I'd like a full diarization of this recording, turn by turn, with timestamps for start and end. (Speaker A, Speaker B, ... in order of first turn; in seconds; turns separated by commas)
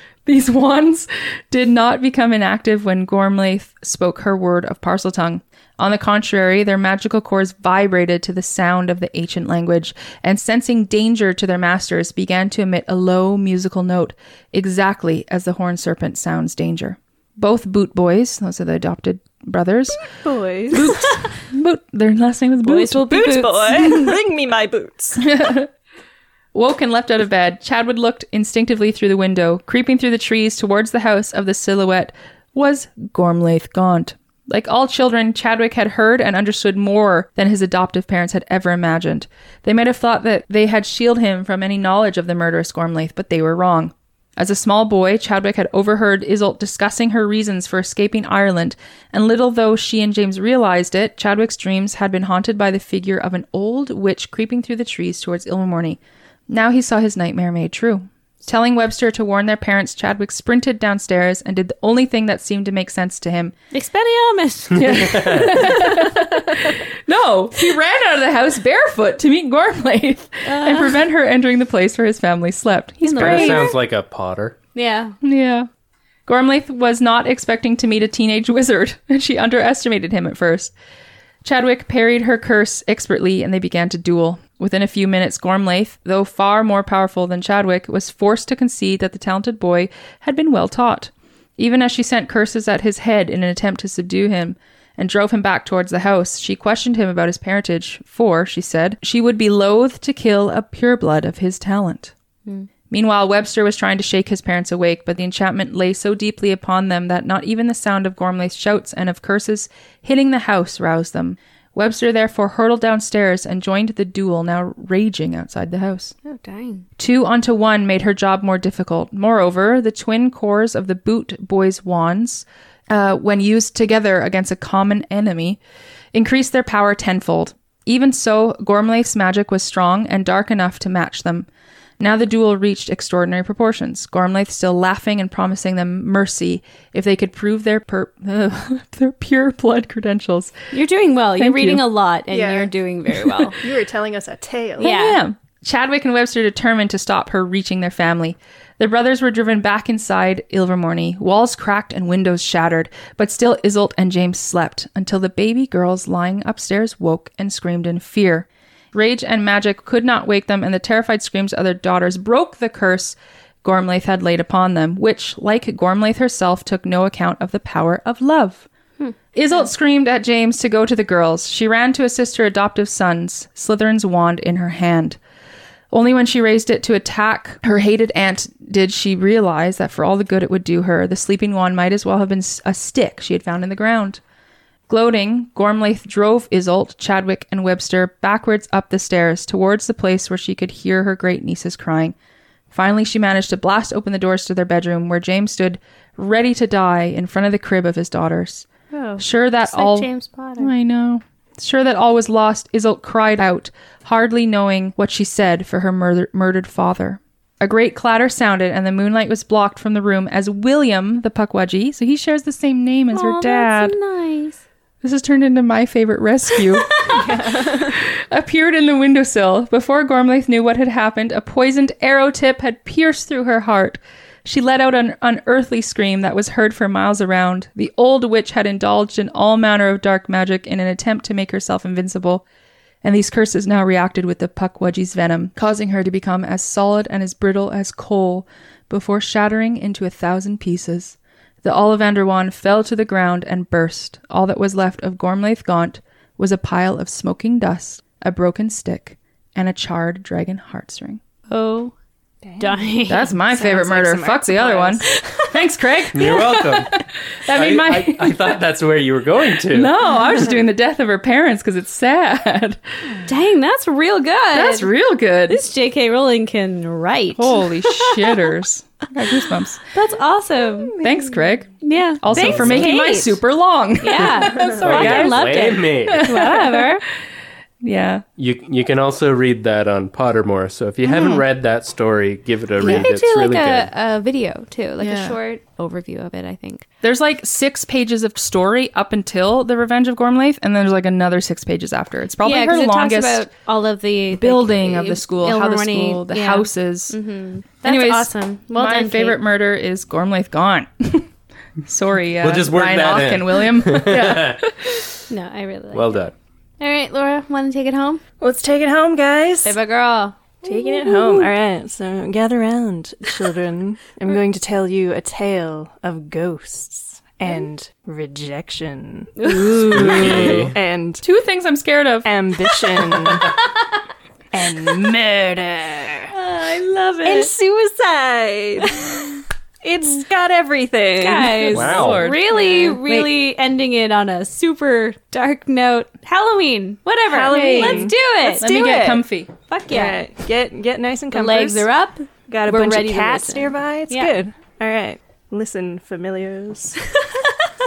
Speaker A: 0.2-20.0, Speaker B: 20.2-20.9, Speaker A: 20.7-23.1, Speaker C: 22.6-24.1, Speaker B: 23.1-25.2, Speaker A: 25.2-25.7, Speaker A: 26.5-56.0, Speaker A: 56.5-63.5, Speaker C: 63.7-66.7, Speaker A: 64.8-73.7, Speaker D: 64.8-65.7, Speaker C: 70.4-71.0, Speaker C: 73.0-73.8, Speaker D: 73.2-74.6, Speaker C: 74.7-75.2, Speaker A: 75.2-75.7, Speaker A: 76.3-80.7, Speaker A: 81.4-102.1, Speaker A: 102.9-116.1, Speaker C: 116.2-116.8, Speaker A: 117.0-125.6, Speaker A: 126.1-131.5, Speaker A: 132.0-140.5, Speaker C: 140.7-143.6, Speaker A: 141.4-141.8, Speaker B: 142.3-142.7, Speaker A: 143.2-143.5, Speaker B: 143.6-144.9, Speaker C: 144.8-145.2, Speaker A: 144.8-168.7, Speaker C: 169.0-169.7, Speaker A: 169.3-175.2, Speaker A: 175.9-184.2, Speaker A: 184.9-192.1, Speaker A: 192.7-198.7, Speaker C: 198.9-200.7, Speaker A: 199.2-213.9, Speaker C: 213.1-214.6, Speaker A: 215.0-217.2, Speaker C: 216.9-217.2, Speaker B: 217.1-217.9, Speaker A: 218.3-232.4, Speaker A: 233.0-251.2, Speaker C: 251.5-251.9, Speaker B: 252.4-252.8, Speaker C: 252.6-253.3, Speaker A: 253.1-258.5, Speaker B: 253.5-255.0, Speaker C: 255.1-255.5, Speaker D: 256.1-260.0, Speaker A: 259.7-263.2, Speaker C: 263.2-264.9, Speaker A: 264.5-265.6, Speaker C: 265.5-268.4, Speaker A: 267.4-269.8, Speaker C: 269.9-270.9, Speaker B: 270.9-271.4, Speaker A: 271.0-276.9, Speaker C: 271.8-273.4, Speaker D: 272.3-272.9, Speaker C: 274.0-277.0, Speaker D: 274.8-276.4, Speaker A: 277.8-278.2, Speaker D: 278.4-283.9, Speaker A: 281.0-281.4, Speaker A: 282.8-283.1, Speaker C: 282.8-286.8, Speaker A: 285.0-285.4, Speaker A: 287.0-293.5, Speaker C: 292.4-299.4, Speaker A: 294.3-297.2, Speaker A: 297.8-301.3, Speaker A: 301.8-305.0, Speaker D: 302.4-304.6, Speaker C: 305.3-306.2, Speaker D: 305.9-306.3, Speaker C: 306.8-308.2, Speaker B: 308.4-309.8, Speaker C: 309.6-311.5, Speaker B: 310.6-321.2, Speaker C: 319.4-320.2, Speaker A: 319.8-320.6, Speaker D: 319.9-320.7, Speaker A: 321.2-322.3, Speaker B: 322.2-323.5, Speaker B: 324.5-326.3, Speaker C: 326.3-327.5, Speaker B: 327.2-329.1, Speaker C: 328.8-329.4, Speaker B: 329.8-331.7, Speaker C: 331.2-338.7, Speaker A: 331.5-332.9, Speaker D: 331.7-332.3, Speaker B: 332.6-333.3, Speaker B: 337.3-339.2, Speaker A: 337.5-339.5, Speaker C: 339.7-340.2, Speaker B: 339.9-341.9, Speaker C: 341.3-344.3, Speaker B: 342.5-347.0